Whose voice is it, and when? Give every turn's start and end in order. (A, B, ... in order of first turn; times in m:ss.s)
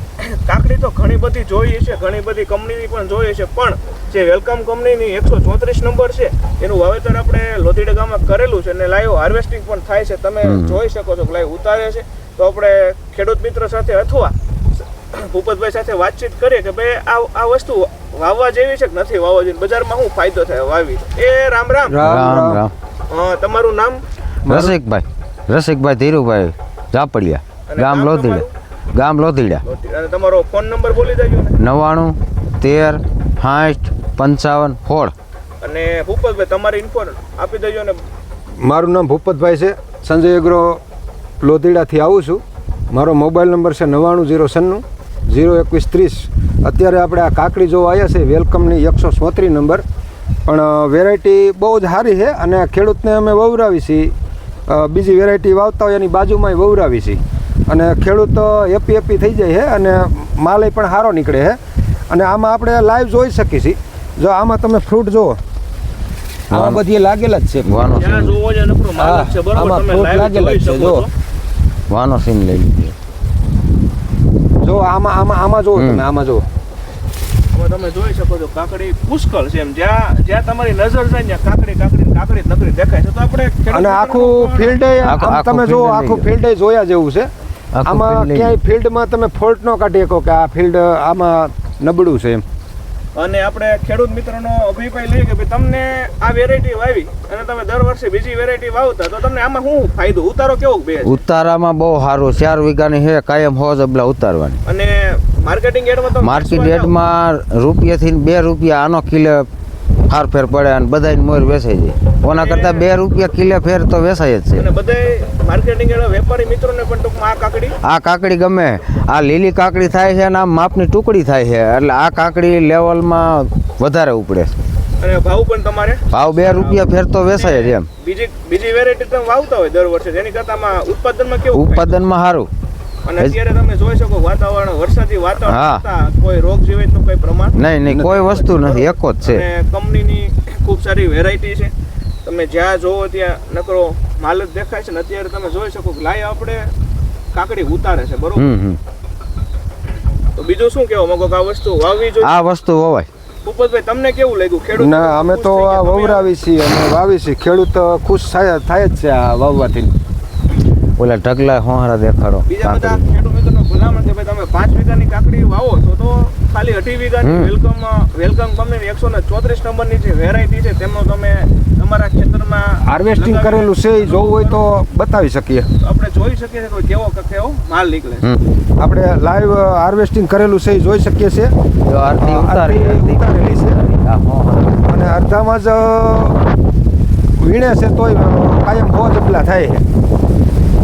0:00.2-0:14.4 A
0:10.4-0:10.8 B
0:15.1-0:22.0 A
0:21.9-0:22.6 C
0:22.0-0:22.7 B
0:23.1-0:24.0 A
0:24.4-0:24.8 C
0:24.5-0:29.6 B
0:27.7-0:28.5 A
0:29.6-0:31.6 A
0:31.6-0:35.1 B
0:35.6-0:38.0 A
0:38.6-0:40.8 C
0:41.4-0:49.8 C
0:50.5-0:54.1 C
0:54.7-1:01.6 C
1:02.1-1:05.4 C
1:06.5-1:06.8 B
1:06.5-1:07.9 C
1:07.6-1:08.4 B
1:08.0-1:11.1 A
1:09.0-1:11.1 C
1:11.9-1:13.0 B
1:14.6-1:16.5 C
1:15.8-1:16.0 B
1:17.5-1:24.8 A
1:23.7-1:27.3 C
1:25.0-1:26.3 B
1:27.7-1:28.6 B
1:27.8-1:32.4 C
1:33.2-1:41.2 A
1:41.0-1:44.6 B
1:44.6-1:46.9 A
1:46.2-1:49.5 B
1:50.1-1:54.7 B
1:52.3-1:52.9 A
1:54.5-1:57.8 A
1:57.8-2:04.5 B
2:05.0-2:12.0 A
2:06.1-2:07.9 B
2:11.5-2:12.5 B
2:13.0-2:21.7 A
2:15.5-2:15.8 B
2:17.6-2:19.5 B
2:17.8-2:18.3 C
2:22.2-2:26.7 A
2:27.3-2:28.5 A
2:28.4-2:28.8 B
2:30.4-2:32.4 A
2:32.2-2:33.1 B
2:33.4-2:36.3 A
2:34.8-2:39.9 C
2:41.0-2:43.0 B
2:42.5-2:54.6 A
2:47.2-2:47.5 B
2:52.8-2:55.7 C
2:55.8-2:58.3 A
2:58.8-3:01.5 C
3:01.9-3:05.0 B
3:02.2-3:03.8 C
3:04.9-3:06.4 C
3:07.4-3:09.8 C